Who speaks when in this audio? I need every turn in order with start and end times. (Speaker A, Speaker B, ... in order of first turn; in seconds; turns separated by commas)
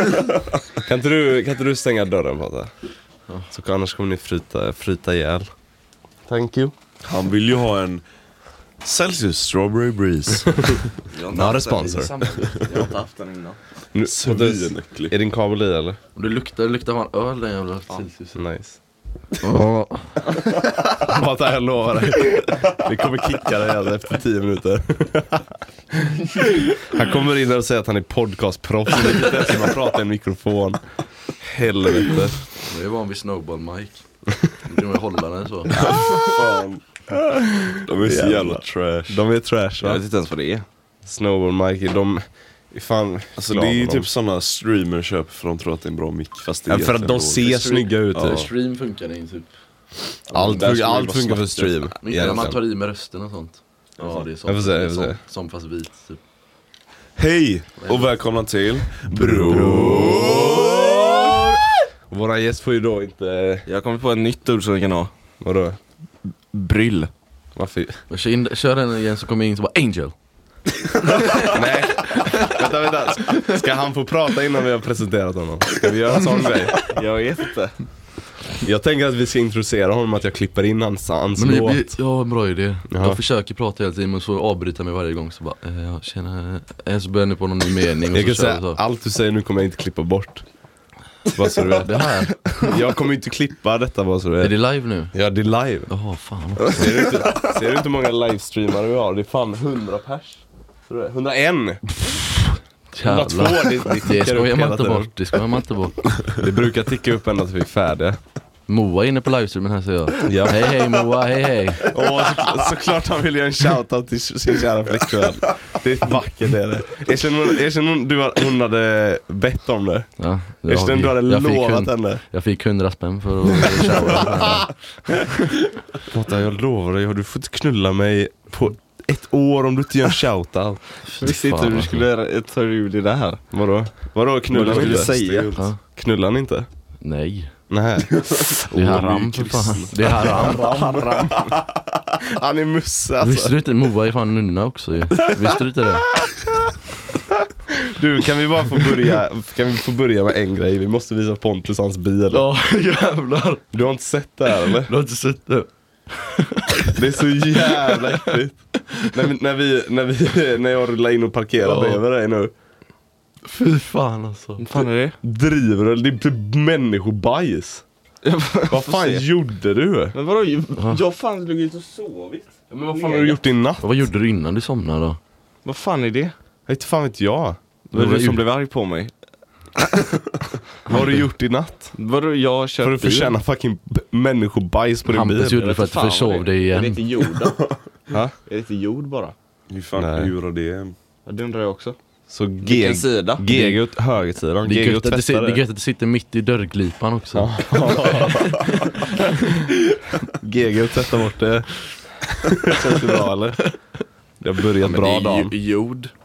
Speaker A: 0.8-2.7, Speaker A: 3.5-5.5, Speaker A: 6.3-6.7, Speaker B: 7.0-8.0, Speaker B: 8.8-10.9, Speaker C: 11.1-13.6, Speaker A: 11.3-12.1, Speaker B: 12.4-12.7, Speaker A: 13.9-16.0, Speaker B: 14.1-15.1, Speaker D: 16.1-18.4, Speaker A: 18.4-18.8, Speaker D: 19.4-20.1, Speaker A: 20.8-30.8, Speaker A: 31.4-32.4, Speaker D: 32.6-35.8, Speaker B: 35.7-36.8, Speaker A: 35.8-36.3, Speaker A: 37.1-40.0, Speaker B: 37.8-39.2, Speaker C: 39.8-40.6, Speaker A: 41.0-44.1, Speaker B: 43.4-48.5, Speaker A: 46.7-48.5, Speaker D: 47.4-49.5, Speaker A: 50.3-52.6, Speaker B: 50.4-51.7, Speaker D: 52.0-56.2, Speaker A: 54.4-55.2, Speaker B: 57.2-60.9, Speaker D: 57.8-58.1, Speaker A: 59.1-61.4, Speaker D: 59.7-60.0, Speaker C: 60.1-61.4, Speaker A: 62.1-63.6, Speaker C: 63.6-65.1, Speaker A: 65.4-65.8, Speaker C: 66.5-67.1, Speaker A: 67.5-68.0, Speaker D: 68.1-70.1, Speaker D: 71.0-71.6, Speaker A: 71.4-76.8, Speaker C: 76.8-77.8, Speaker A: 78.6-81.9, Speaker D: 81.4-88.8, Speaker A: 82.9-83.2, Speaker A: 88.1-90.4, Speaker A: 91.3-94.5, Speaker D: 91.8-92.4, Speaker D: 94.4-95.1, Speaker A: 95.1-95.9, Speaker D: 95.9-97.1, Speaker A: 96.7-102.3, Speaker D: 102.9-106.0, Speaker A: 103.0-105.1, Speaker A: 106.3-108.2, Speaker D: 108.7-111.9, Speaker A: 110.2-110.8, Speaker A: 111.9-122.2, Speaker D: 120.2-124.7, Speaker A: 123.8-124.2, Speaker A: 126.0-130.8, Speaker D: 131.1-132.0, Speaker C: 131.2-133.4, Speaker A: 133.5-135.1, Speaker C: 134.5-135.5, Speaker B: 134.5-135.7, Speaker D: 135.5-135.8, Speaker A: 135.9-136.7, Speaker D: 137.0-137.5, Speaker A: 137.7-139.2, Speaker B: 138.3-141.2, Speaker D: 138.7-140.8, Speaker A: 140.2-143.6, Speaker C: 140.5-141.5, Speaker D: 143.2-146.1, Speaker A: 146.2-146.7, Speaker A: 147.7-152.4, Speaker D: 152.3-153.6, Speaker A: 153.7-154.9, Speaker D: 154.8-158.3, Speaker A: 156.9-162.5, Speaker D: 161.6-162.0, Speaker D: 163.4-164.8, Speaker C: 164.6-165.2, Speaker A: 165.2-167.8, Speaker C: 168.2-169.2, Speaker A: 168.7-170.1, Speaker C: 170.1-173.4, Speaker A: 172.7-174.1, Speaker D: 173.8-175.2, Speaker C: 175.6-176.3, Speaker A: 176.7-177.6, Speaker C: 177.9-179.1, Speaker D: 177.9-178.4, Speaker C: 179.8-180.1, Speaker A: 180.8-181.9, Speaker C: 181.9-183.3, Speaker A: 182.8-185.7, Speaker D: 185.1-187.0, Speaker C: 185.6-189.3, Speaker B: 187.3-187.8, Speaker B: 189.7-190.9, Speaker A: 190.0-190.3, Speaker C: 191.2-192.0, Speaker A: 192.3-195.6, Speaker C: 192.6-193.5, Speaker D: 193.5-193.8, Speaker D: 194.6-197.5, Speaker A: 197.3-203.6, Speaker A: 204.4-205.5, Speaker C: 204.8-206.1